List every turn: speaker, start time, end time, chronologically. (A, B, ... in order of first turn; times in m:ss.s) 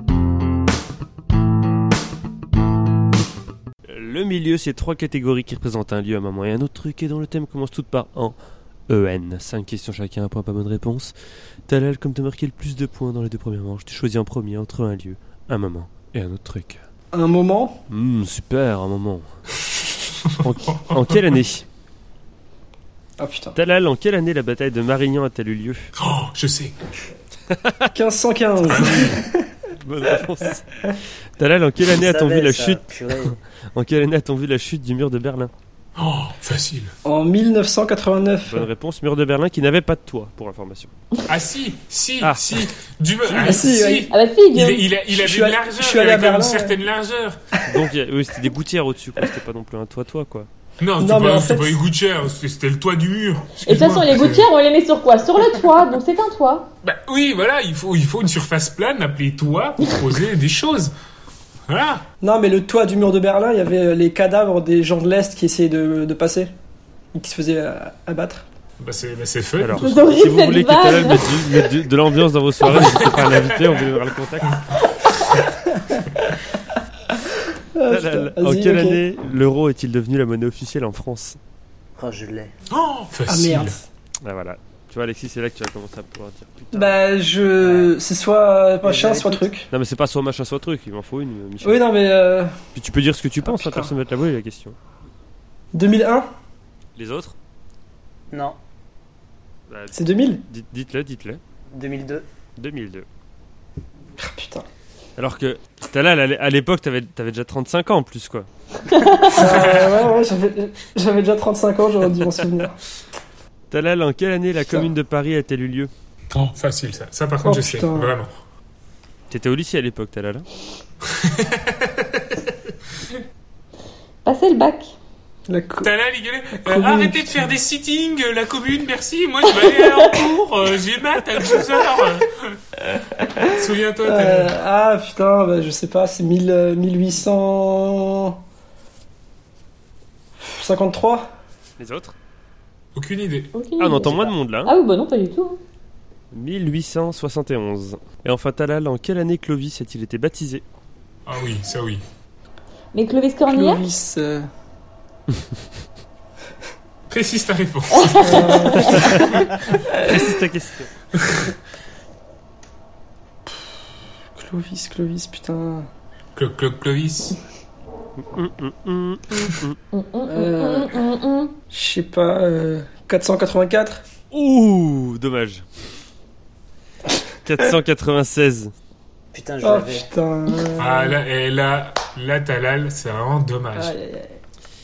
0:03.8-0:08.4 A
0:08.9-0:11.1 A
0:11.7-0:16.8 A
0:17.1-0:17.8 B
0:17.9-0:19.3 A
0:20.3-0:21.2 C
0:20.4-0:21.6 A
0:23.2-0:23.6 B
0:23.5-0:25.9 A
0:26.0-0:26.8 C
0:27.5-0:27.9 A
0:27.9-0:29.5 B
0:28.7-0:29.2 C
0:28.7-0:29.1 A
0:29.7-0:35.5 A
0:32.0-0:33.4 D
0:36.0-0:36.9 C
0:37.0-0:38.7 B
0:38.5-0:40.9 A
0:41.3-0:47.4 C
0:42.2-0:42.7 A
0:43.3-0:43.6 A
0:43.3-0:44.1 B
0:44.1-0:44.9 E
0:45.1-0:46.8 B
0:47.7-0:50.5 A
0:50.8-0:54.5 C
0:51.0-0:51.8 B
0:53.6-0:56.7 E
0:56.8-1:00.9 C
1:01.7-1:02.0 C
1:02.2-1:06.5 B
1:07.1-1:08.4 B
1:08.8-1:10.0 C
1:09.6-1:14.6 A
1:09.8-1:11.7 E
1:12.6-1:13.8 C
1:15.7-1:16.3 B
1:17.7-1:19.0 B
1:17.9-1:21.4 A
1:22.0-1:22.5 D
1:22.7-1:23.8 C
1:23.3-1:23.9 B
1:24.2-1:27.0 A
1:26.7-1:29.7 B
1:27.6-1:27.9 D
1:28.8-1:29.4 D
1:29.7-1:31.8 A
1:31.6-1:32.6 B
1:32.7-1:34.8 A
1:33.4-1:33.9 B
1:35.7-1:36.3 B
1:37.0-1:37.3 A
1:38.3-1:38.6 D
1:39.7-1:41.4 A
1:39.9-1:40.4 B
1:41.7-1:42.2 D
1:42.6-1:43.0 A
1:44.2-1:44.6 B
1:45.2-1:48.5 A
1:48.9-1:49.4 E
1:49.3-1:52.8 B
1:49.3-1:50.1 C
1:53.7-1:55.9 A
1:56.3-1:58.3 C
1:57.4-1:58.1 B
1:59.3-2:00.4 A
2:01.1-2:02.4 C
2:04.2-2:04.9 E
2:05.5-2:05.9 B
2:05.8-2:12.6 C
2:06.6-2:07.4 B
2:13.5-2:14.5 C
2:14.0-2:18.4 B
2:20.4-2:21.3 B
2:21.8-2:22.2 A
2:22.9-2:23.5 C
2:23.5-2:25.6 E
2:23.8-2:24.7 A
2:26.3-2:30.6 A
2:31.2-2:32.0 C
2:32.9-2:33.9 E
2:33.5-2:34.5 B
2:37.1-2:38.8 C
2:37.9-2:39.3 E
2:38.2-2:39.2 B
2:38.7-2:39.4 A
2:39.9-2:40.9 A
2:41.2-2:41.5 C
2:44.3-2:45.9 B
2:46.3-2:47.4 C
2:48.2-2:49.8 A
2:49.9-2:51.5 E
2:50.2-2:51.0 B
2:51.7-2:54.0 B
2:54.3-2:55.6 A
2:57.4-2:58.7 A
2:59.3-3:00.1 D
2:59.6-3:01.2 B
3:00.8-3:03.9 C
3:03.7-3:04.4 B